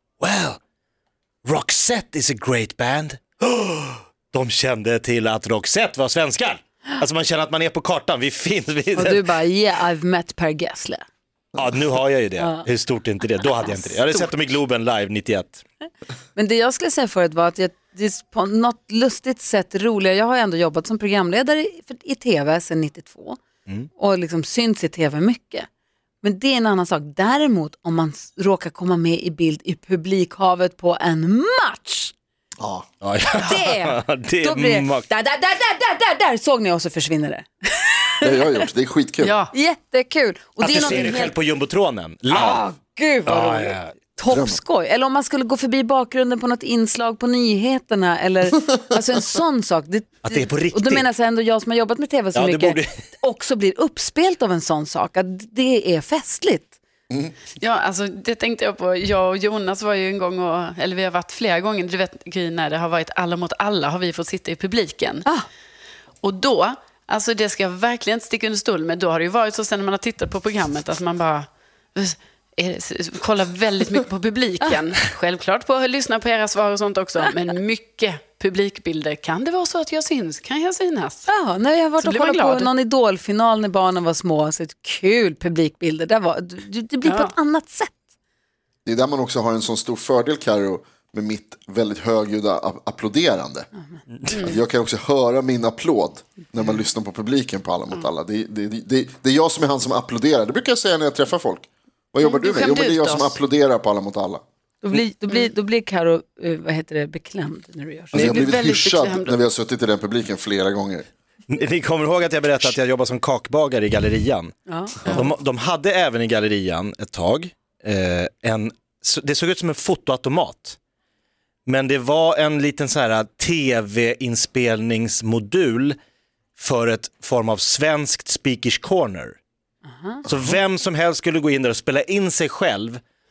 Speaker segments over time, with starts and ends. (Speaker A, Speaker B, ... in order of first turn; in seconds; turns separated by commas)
Speaker A: 0.2-0.6, Speaker A: 1.4-9.3, Speaker B: 8.9-11.1, Speaker A: 11.6-15.6, Speaker B: 12.4-12.7, Speaker B: 13.6-14.3, Speaker B: 16.4-23.4, Speaker B: 24.0-25.7, Speaker B: 26.2-32.1, Speaker C: 32.6-32.9, Speaker A: 33.0-35.1, Speaker B: 33.3-38.4, Speaker C: 38.2-39.4, Speaker D: 39.2-39.5, Speaker B: 39.5-41.4, Speaker A: 40.6-42.6, Speaker B: 42.3-56.7, Speaker A: 43.3-43.9, Speaker C: 44.3-44.6, Speaker A: 50.2-51.0, Speaker A: 52.3-52.9, Speaker D: 57.6-65.3, Speaker D: 66.2-81.3, Speaker B: 81.3-88.0, Speaker D: 82.0-82.7, Speaker D: 87.0-87.3, Speaker C: 88.8-93.7, Speaker A: 94.1-94.4, Speaker D: 94.3-94.6, Speaker C: 94.3-104.4, Speaker D: 102.2-103.4, Speaker B: 104.8-108.2, Speaker D: 108.1-109.4, Speaker C: 108.1-111.1, Speaker A: 111.5-114.5, Speaker B: 114.7-115.2, Speaker A: 115.1-120.8, Speaker A: 121.7-126.0, Speaker A: 126.6-129.4, Speaker B: 129.8-130.2, Speaker A: 130.2-133.0